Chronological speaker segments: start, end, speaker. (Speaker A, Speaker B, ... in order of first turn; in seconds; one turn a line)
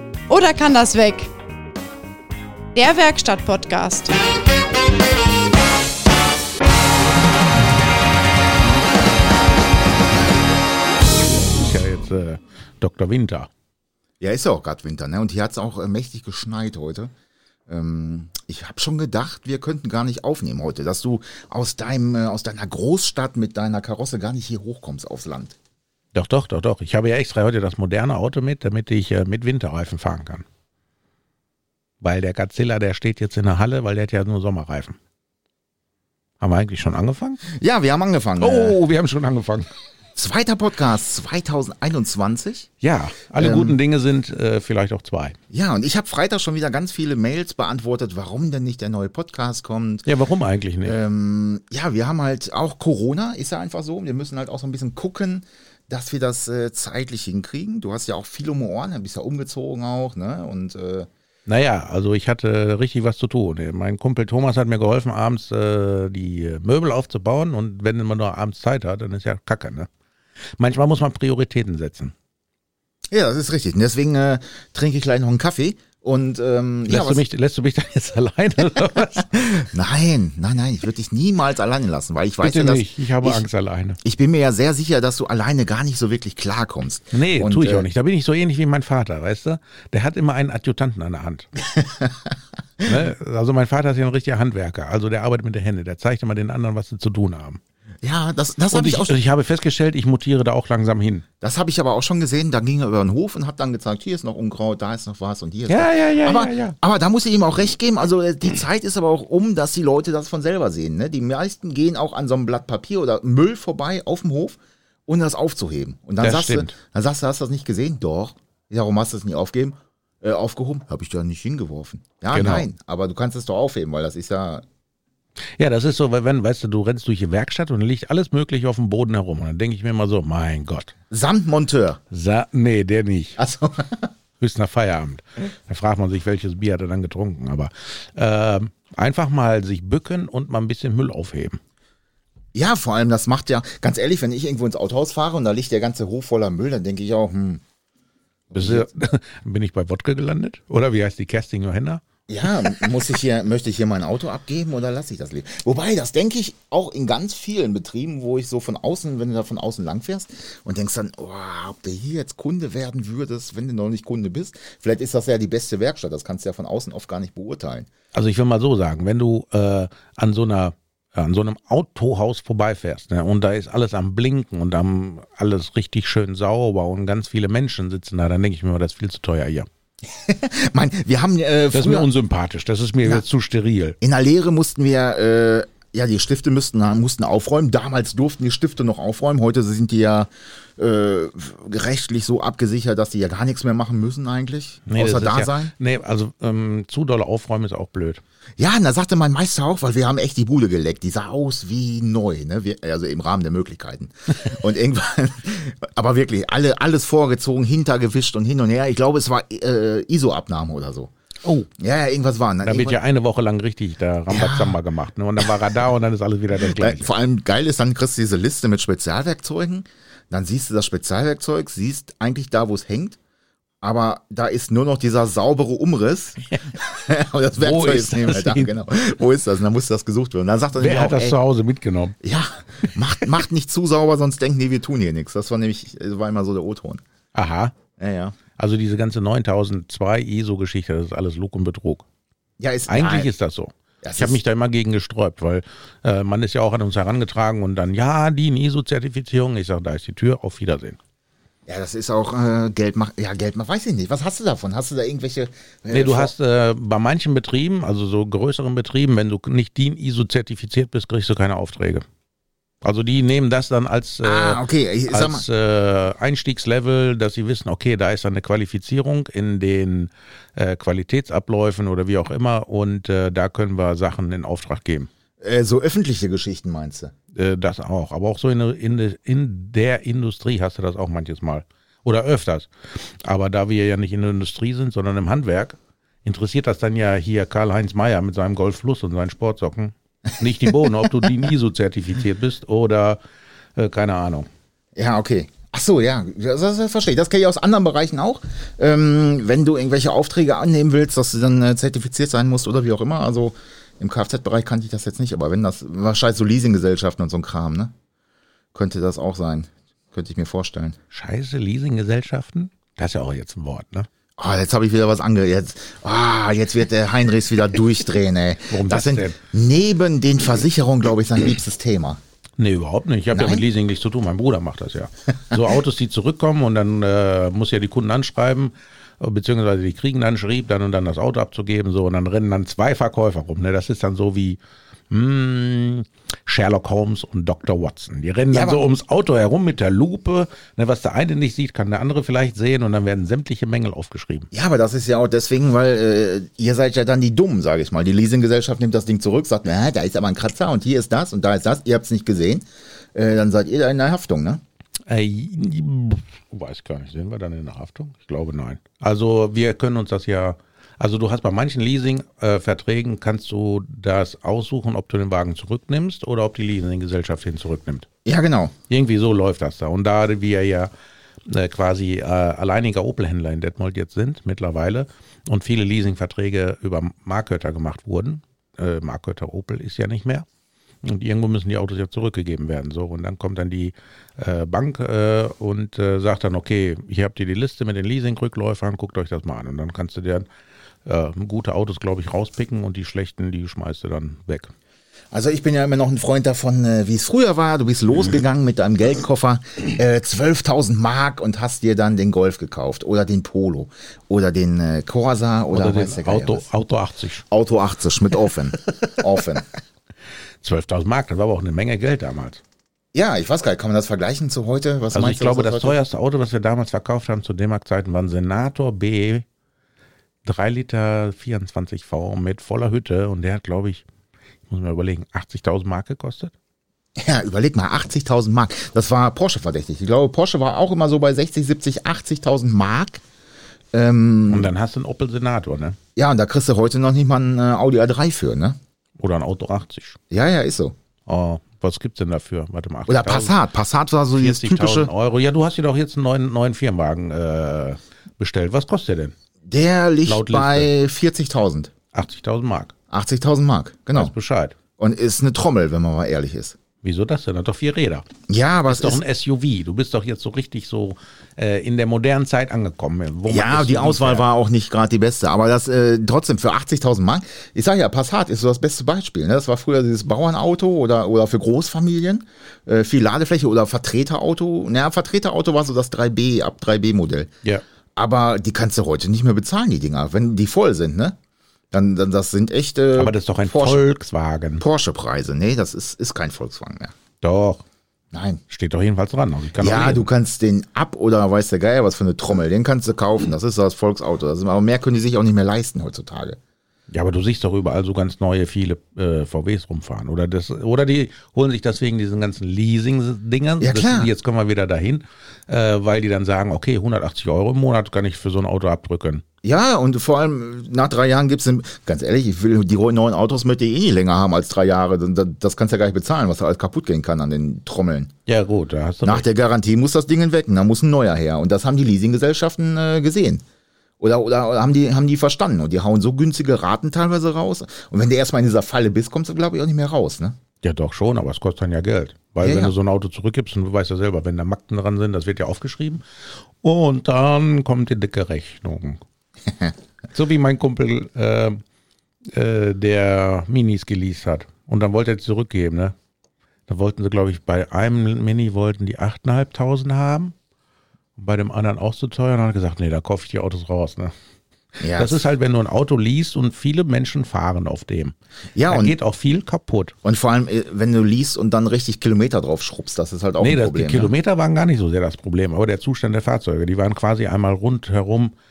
Speaker A: 0.3-1.3
Speaker A: 2.8-4.2
Speaker B: 11.4-13.5
Speaker C: 14.2-17.1
Speaker C: 17.7-25.6
Speaker B: 26.1-30.5
Speaker B: 32.0-35.0
Speaker B: 36.4-37.4
Speaker C: 37.5-38.8
Speaker B: 38.4-39.7
Speaker C: 40.2-42.7
Speaker B: 42.8-45.4
Speaker C: 43.4-43.8
Speaker C: 45.5-50.1
Speaker B: 50.1-51.0
Speaker C: 50.9-61.1
Speaker B: 61.5-69.9
Speaker B: 70.6-72.1
Speaker C: 73.1-77.2
Speaker B: 76.9-79.4
Speaker C: 79.3-83.4
Speaker B: 82.4-84.0
Speaker C: 84.0-87.9
Speaker B: 87.1-91.5
Speaker C: 91.7-93.0
Speaker B: 92.8-97.6
Speaker C: 98.0-99.2
Speaker B: 98.7-101.2
Speaker C: 101.4-124.7
Speaker B: 105.7-106.8
Speaker B: 116.2-116.7
Speaker B: 122.3-122.7
Speaker B: 125.6-130.9
Speaker C: 131.1-132.0
Speaker B: 132.1-133.4
Speaker C: 133.4-134.1
Speaker B: 134.4-141.6
Speaker C: 142.5-147.6
Speaker C: 148.5-148.9
Speaker B: 148.5-152.0
Speaker C: 152.3-167.9
Speaker B: 168.1-179.7
Speaker C: 180.1-182.1
Speaker B: 181.7-184.0
Speaker C: 184.0-195.7
Speaker B: 194.9-198.2
Speaker C: 198.6-211.1
Speaker C: 211.8-213.0
Speaker B: 212.6-217.1
Speaker C: 214.3-214.8
Speaker C: 216.8-223.2
Speaker C: 223.8-231.4
Speaker B: 227.6-228.7
Speaker B: 230.8-232.2
Speaker C: 232.2-237.0
Speaker B: 237.3-237.8
Speaker C: 238.0-238.4
Speaker B: 238.6-242.1
Speaker C: 242.6-243.3
Speaker B: 242.9-251.0
Speaker C: 244.0-244.4
Speaker C: 251.7-256.3
Speaker B: 255.9-262.1
Speaker B: 262.8-275.1
Speaker C: 264.2-265.4
Speaker C: 275.4-277.1
Speaker B: 277.3-282.7
Speaker B: 283.2-293.2
Speaker C: 290.6-291.3
Speaker B: 293.8-294.5
Speaker C: 295.0-307.9
Speaker C: 308.7-311.0
Speaker B: 311.1-314.1
Speaker C: 314.4-322.2
Speaker B: 318.7-319.4
Speaker B: 322.6-334.6
Speaker C: 323.3-323.6
Speaker B: 335.1-344.5
Speaker C: 338.5-338.9
Speaker C: 344.5-354.6
Speaker B: 355.1-368.1
Speaker C: 368.2-368.7
Speaker B: 368.9-370.9
Speaker B: 371.5-380.5
Speaker B: 381.0-390.5
Speaker B: 391.1-394.7
Speaker C: 395.3-406.7
Speaker B: 405.7-407.4
Speaker C: 407.5-409.6
Speaker B: 410.6-412.6
Speaker C: 413.1-416.0
Speaker B: 415.1-419.4
Speaker B: 420.4-424.1
Speaker B: 424.7-426.5
Speaker C: 427.2-433.2
Speaker C: 433.9-434.7
Speaker B: 434.5-436.0
Speaker C: 436.2-438.8
Speaker B: 439.2-440.2
Speaker C: 440.3-441.0
Speaker B: 441.3-443.6
Speaker C: 443.1-445.1
Speaker B: 444.4-449.4
Speaker C: 449.6-451.9
Speaker B: 450.3-450.9
Speaker B: 452.1-452.9
Speaker C: 453.1-454.3
Speaker B: 454.1-454.8
Speaker C: 455.0-456.8
Speaker B: 457.0-458.3
Speaker C: 458.5-459.2
Speaker B: 458.9-464.4
Speaker C: 463.5-477.5
Speaker C: 478.2-481.4
Speaker C: 481.9-484.1
Speaker B: 483.1-484.8
Speaker C: 484.8-487.1
Speaker B: 487.4-487.8
Speaker C: 488.3-488.6
Speaker B: 488.7-490.3
Speaker C: 489.8-496.6
Speaker B: 497.1-509.4
Speaker C: 503.8-504.3
Speaker C: 509.6-518.3
Speaker B: 518.5-519.5
Speaker C: 519.2-523.6
Speaker C: 524.2-530.6
Speaker B: 530.8-536.2
Speaker C: 532.6-532.9
Speaker B: 536.8-539.2
Speaker B: 540.3-541.8
Speaker B: 542.5-546.1
Speaker B: 546.9-550.5
Speaker B: 551.4-554.3
Speaker C: 555.0-555.5
Speaker B: 555.1-558.4
Speaker C: 558.8-559.2
Speaker B: 558.9-560.1
Speaker C: 560.2-564.3
Speaker B: 563.6-568.5